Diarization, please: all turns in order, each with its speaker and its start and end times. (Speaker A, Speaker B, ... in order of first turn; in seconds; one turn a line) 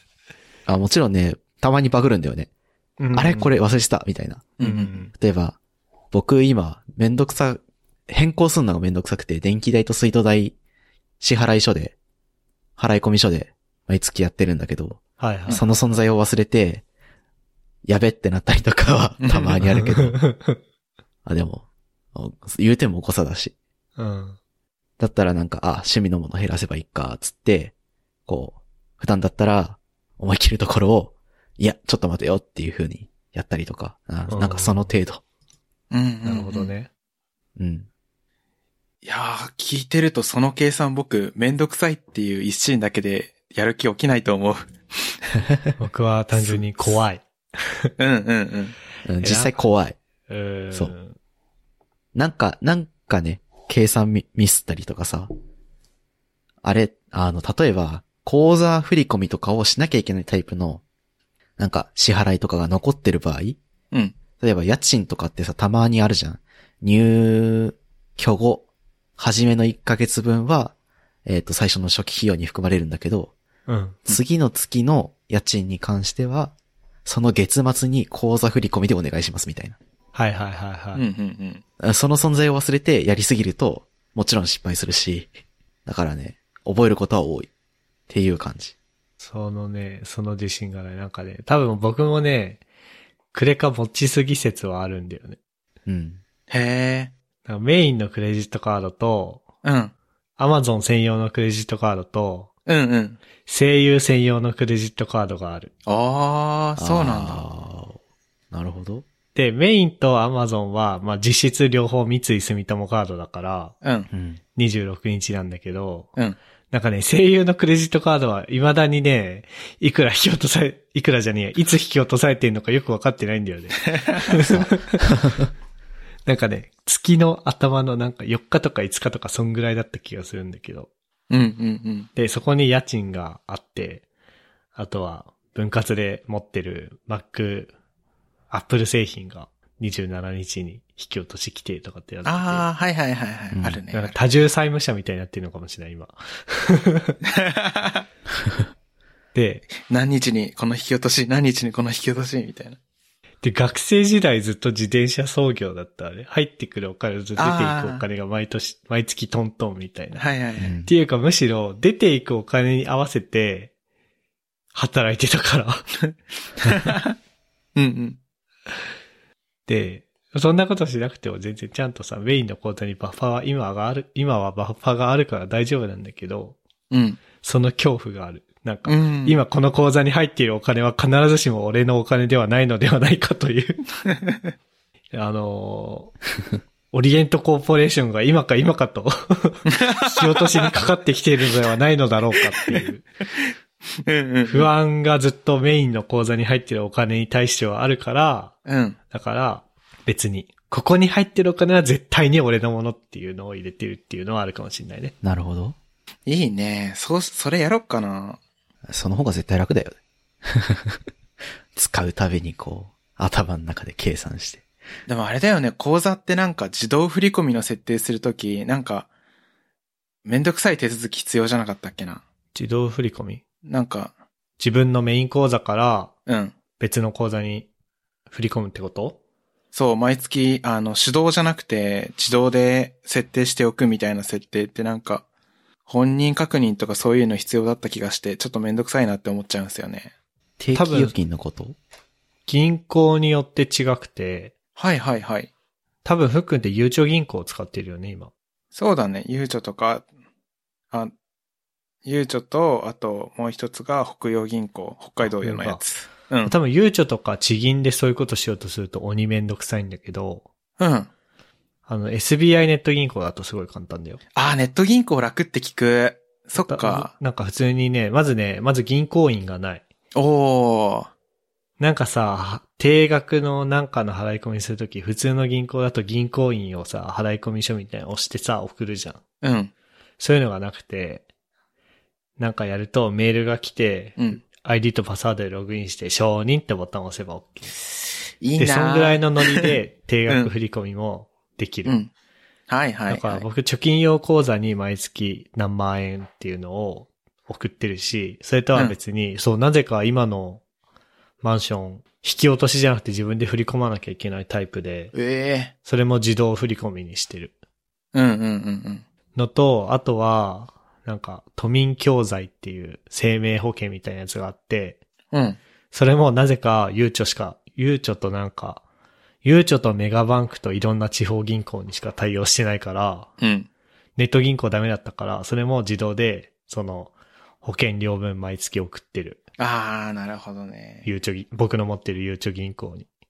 Speaker A: 0.7-2.5
Speaker B: 3.0-3.5
Speaker A: 3.1-4.6
Speaker C: 4.6-4.9
Speaker B: 4.6-5.1
Speaker A: 5.1-5.6
Speaker A: 6.1-10.6
Speaker A: 11.2-11.9
Speaker A: 12.8-16.8
Speaker B: 15.2-15.6
Speaker A: 17.8-20.2
Speaker C: 19.2-19.6
Speaker B: 19.6-20.6
Speaker A: 21.2-23.5
Speaker B: 24.0-24.4
Speaker A: 25.0-27.7
Speaker A: 28.3-35.2
Speaker B: 34.3-34.9
Speaker C: 35.9-36.7
Speaker B: 36.2-36.9
Speaker A: 37.6-37.9
Speaker C: 39.0-45.2
Speaker B: 45.8-47.6
Speaker C: 46.3-46.6
Speaker C: 48.0-48.7
Speaker A: 49.0-50.0
Speaker B: 49.2-49.6
Speaker B: 50.3-51.2
Speaker A: 52.1-55.3
Speaker A: 56.6-60.8
Speaker A: 61.6-63.6
Speaker A: 64.4-68.7
Speaker A: 69.2-70.7
Speaker A: 71.2-73.3
Speaker B: 73.7-74.0
Speaker A: 74.0-76.5
Speaker A: 77.0-79.8
Speaker B: 80.1-81.0
Speaker C: 80.9-81.6
Speaker A: 81.8-85.3
Speaker A: 85.8-87.5
Speaker A: 88.1-88.7
Speaker B: 89.2-92.6
Speaker B: 93.3-95.4
Speaker A: 95.8-96.2
Speaker C: 96.5-97.1
Speaker B: 97.5-99.4
Speaker C: 99.6-99.9
Speaker B: 100.4-102.5
Speaker C: 102.7-103.2
Speaker B: 103.5-105.7
Speaker C: 105.8-107.4
Speaker A: 106.8-108.0
Speaker A: 108.5-109.0
Speaker B: 109.3-113.7
Speaker C: 113.8-114.1
Speaker A: 114.1-114.4
Speaker B: 114.5-116.1
Speaker B: 116.7-125.1
Speaker A: 124.5-125.4
Speaker B: 126.2-130.9
Speaker C: 131.3-132.1
Speaker B: 132.2-134.0
Speaker B: 134.8-137.7
Speaker B: 138.5-142.7
Speaker C: 142.2-144.2
Speaker A: 143.5-143.8
Speaker B: 143.9-147.2
Speaker C: 147.3-148.0
Speaker B: 149.3-149.7
Speaker C: 149.7-152.8
Speaker B: 153.4-160.2
Speaker C: 157.4-158.0
Speaker C: 160.2-160.7
Speaker A: 160.6-160.9
Speaker B: 160.8-163.7
Speaker B: 164.7-165.8
Speaker C: 166.6-167.1
Speaker C: 167.8-168.2
Speaker B: 169.7-176.6
Speaker C: 176.9-177.2
Speaker B: 177.4-183.8
Speaker C: 178.8-179.4
Speaker B: 185.1-186.1
Speaker B: 186.9-193.0
Speaker C: 189.7-190.4
Speaker C: 194.0-194.7
Speaker B: 194.4-198.5
Speaker C: 198.7-199.0
Speaker B: 199.1-205.1
Speaker A: 205.2-205.8
Speaker C: 206.2-208.4
Speaker A: 208.9-211.0
Speaker A: 211.7-214.6
Speaker C: 215.1-219.1
Speaker C: 220.2-222.2
Speaker B: 222.5-223.4
Speaker C: 223.6-224.1
Speaker B: 224.6-226.1
Speaker C: 226.3-226.5
Speaker B: 226.8-227.7
Speaker B: 228.3-229.2
Speaker C: 229.7-235.2
Speaker C: 235.9-240.1
Speaker A: 240.6-241.8
Speaker B: 240.7-241.1
Speaker B: 242.5-244.5
Speaker C: 244.8-245.5
Speaker B: 246.0-248.3
Speaker C: 248.7-250.0
Speaker C: 252.0-256.5
Speaker B: 255.2-255.8
Speaker B: 256.4-260.5
Speaker C: 260.8-261.1
Speaker B: 261.9-264.2
Speaker C: 264.3-267.1
Speaker B: 266.6-269.8
Speaker C: 270.1-271.1
Speaker B: 271.8-279.2
Speaker C: 279.4-279.7
Speaker B: 280.2-281.2
Speaker B: 282.4-287.7
Speaker C: 288.4-289.7
Speaker B: 288.6-291.9
Speaker C: 291.8-292.1
Speaker C: 292.7-293.4
Speaker B: 293.1-300.6
Speaker B: 301.4-305.1
Speaker C: 305.1-305.7
Speaker B: 305.8-307.5
Speaker C: 308.1-309.0
Speaker B: 309.3-315.0
Speaker C: 315.3-315.6
Speaker B: 315.9-318.8
Speaker B: 319.4-323.3
Speaker C: 323.4-323.7
Speaker B: 324.1-329.4
Speaker C: 329.6-331.1
Speaker B: 331.0-333.1